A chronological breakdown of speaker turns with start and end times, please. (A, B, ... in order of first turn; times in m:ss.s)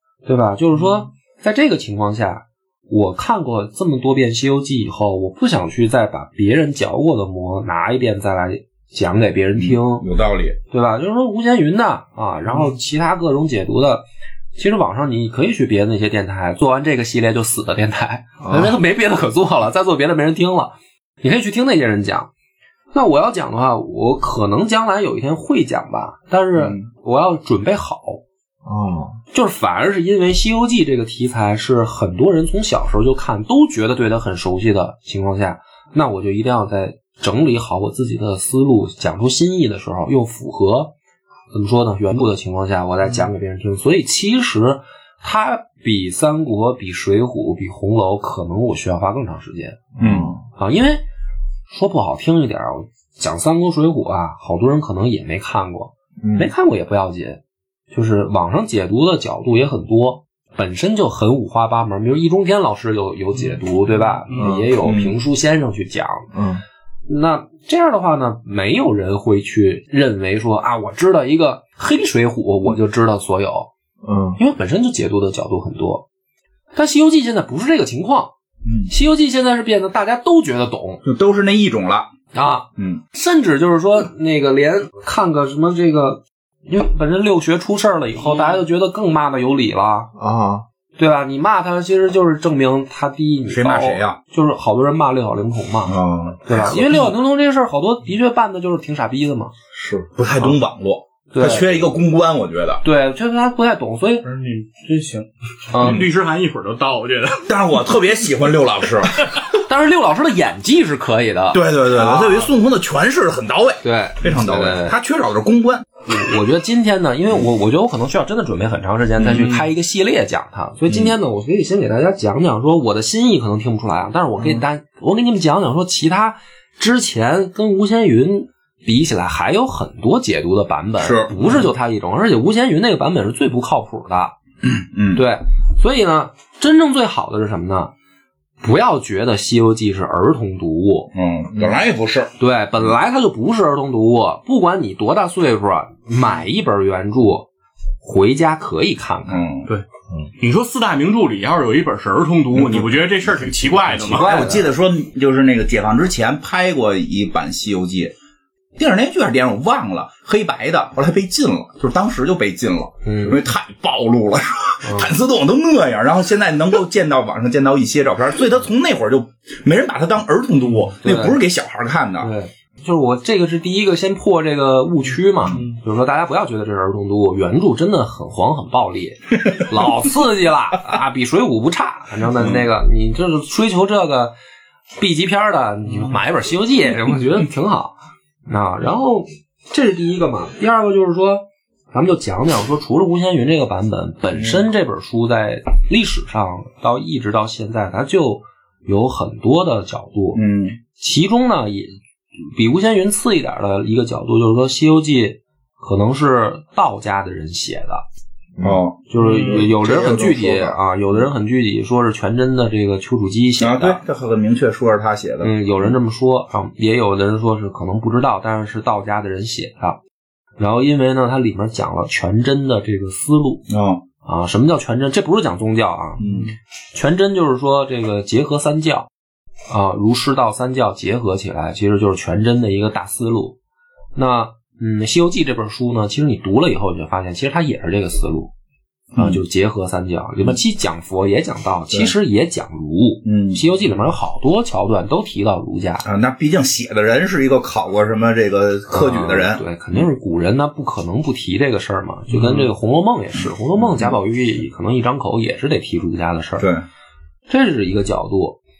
0:00.3-0:10.1 A
0:09.6-0:10.6 B
0:10.7-0:14.0 A
0:14.6-0:22.3 A
0:18.4-0:18.8 C
0:22.9-0:28.2 A
0:26.6-0:26.8 B
0:28.6-0:29.2 C
0:29.3-0:40.9 A
0:41.5-0:49.8 A
0:50.0-0:50.4 C
0:50.0-0:50.3 B
0:50.6-0:51.0 A
0:51.7-0:57.4 A
0:56.2-0:56.5 C
0:57.9-1:06.3 A
1:04.3-1:04.5 D
1:04.4-1:04.7 C
1:04.8-1:05.1 B
1:06.3-1:06.6 C
1:07.1-1:13.7 A
1:14.0-1:14.4 C
1:14.4-1:16.0 A
1:16.8-1:18.3 A
1:18.6-1:18.9 B
1:18.9-1:21.0 A
1:21.0-1:22.1 B
1:22.3-1:30.1 A
1:30.2-1:30.6 C
1:31.0-1:39.5 A
1:33.5-1:34.2 B
1:35.9-1:37.2 B
1:39.8-1:40.1 C
1:40.1-1:42.8 B
1:41.3-1:41.8 A
1:42.8-1:44.3 A
1:44.2-1:47.4 D
1:45.7-1:46.0 A
1:47.5-1:49.3 B
1:49.7-1:52.5 A
1:51.5-1:55.9 B
1:53.8-1:55.0 A
1:56.1-2:14.4 A
1:59.3-1:59.6 D
2:00.9-2:01.1 B
2:11.0-2:11.6 B
2:14.6-2:15.2 B
2:15.1-2:17.9 A
2:18.6-2:21.1 A
2:21.1-2:22.3 B
2:22.4-2:27.5 A
2:28.0-2:29.4 A
2:29.3-2:29.7 B
2:30.4-2:34.3 D
2:32.5-2:38.1 B
2:34.1-2:34.7 A
2:38.8-2:52.3 B
2:43.0-2:43.4 A
2:44.8-2:45.1 A
2:51.0-2:51.4 A
2:52.2-3:04.3 A
3:02.4-3:02.7 B
3:05.0-3:07.9 A
3:08.5-3:20.4 A
3:14.3-3:14.7 B
3:20.3-3:20.8 B
3:21.0-3:28.0 A
3:28.6-3:30.8 C
3:28.6-3:29.0 B
3:29.1-3:34.0 A
3:33.6-3:35.9 B
3:35.4-3:40.0 A
3:40.6-3:43.6 A
3:43.7-3:44.0 B
3:44.2-3:46.3 A
3:46.2-3:46.5 B
3:46.2-3:46.5 D
3:46.9-3:49.1 A
3:49.7-3:53.6 A
3:54.2-3:58.5 A
3:59.1-3:59.4 B
3:59.2-4:06.0 A
4:03.2-4:03.6 B
4:06.0-4:10.0 B
4:08.9-4:16.7 A
4:12.3-4:12.7 B
4:13.8-4:14.2 B
4:16.6-4:16.8 B
4:17.5-4:18.6 A